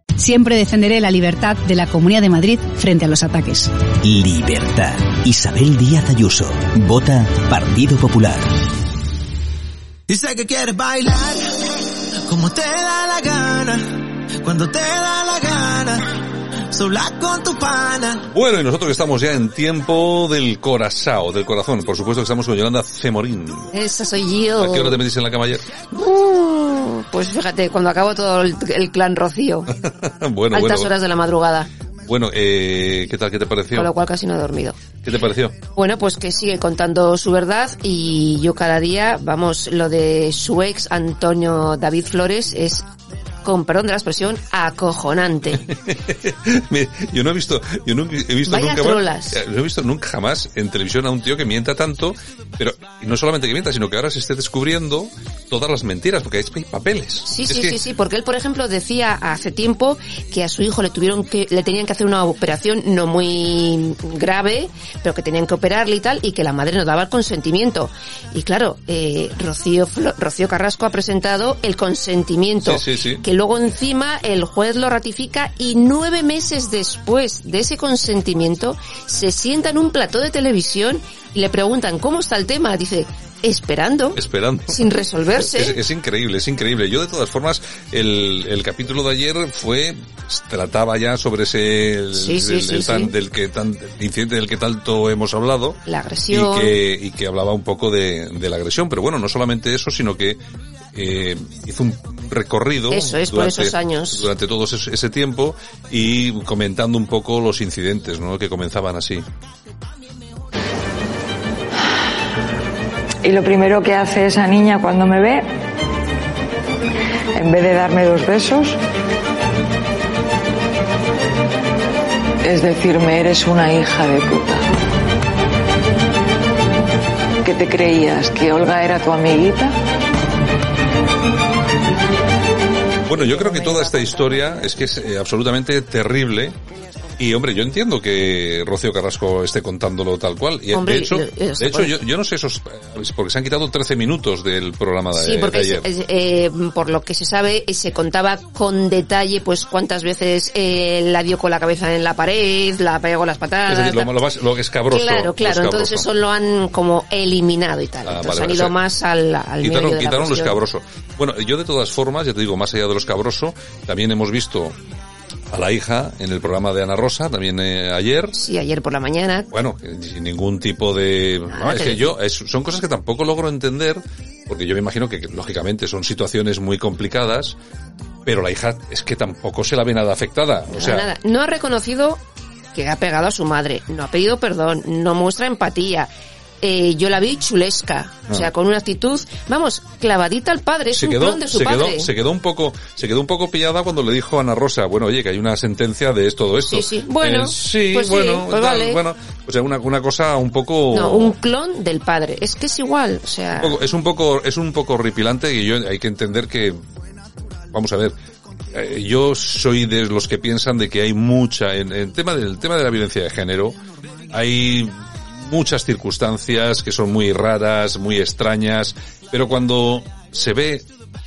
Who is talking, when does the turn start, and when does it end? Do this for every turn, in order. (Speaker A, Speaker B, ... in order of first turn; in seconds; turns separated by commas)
Speaker A: 0.2-3.7, Speaker B: 4.0-8.7, Speaker C: 10.1-11.4, Speaker C: 12.3-16.1, Speaker C: 16.7-18.2, Speaker D: 18.3-23.7, Speaker E: 23.7-25.0, Speaker D: 24.6-25.7, Speaker E: 25.9-29.7, Speaker D: 30.0-30.9, Speaker E: 30.5-31.7, Speaker D: 32.0-33.9, Speaker E: 33.7-34.8, Speaker D: 35.0-35.5, Speaker E: 35.7-42.9, Speaker E: 43.4-45.7, Speaker D: 45.7-57.8, Speaker E: 48.5-49.4, Speaker E: 57.2-85.8, Speaker D: 72.6-73.2, Speaker D: 84.2-84.8, Speaker D: 85.3-100.4, Speaker E: 92.1-93.1, Speaker E: 95.8-96.7, Speaker D: 100.9-109.2, Speaker E: 102.9-104.3, Speaker F: 113.2-115.4, Speaker F: 117.3-118.8, Speaker F: 122.5-124.6, Speaker F: 127.4-129.7, Speaker D: 133.0-136.6, Speaker D: 137.2-145.9, Speaker E: 140.7-141.9, Speaker E: 145.1-154.1, Speaker D: 153.7-156.1, Speaker E: 154.9-160.6, Speaker D: 158.0-158.8, Speaker D: 159.6-164.8, Speaker D: 165.5-168.4, Speaker E: 168.3-169.5, Speaker D: 169.5-177.6, Speaker E: 171.5-172.1, Speaker D: 178.2-181.1, Speaker E: 180.7-182.2, Speaker E: 182.7-192.1, Speaker D: 190.9-201.3, Speaker E: 196.6-199.0, Speaker E: 200.9-203.8, Speaker D: 203.6-206.8, Speaker D: 207.7-208.1, Speaker D: 208.7-213.8, Speaker D: 214.3-220.8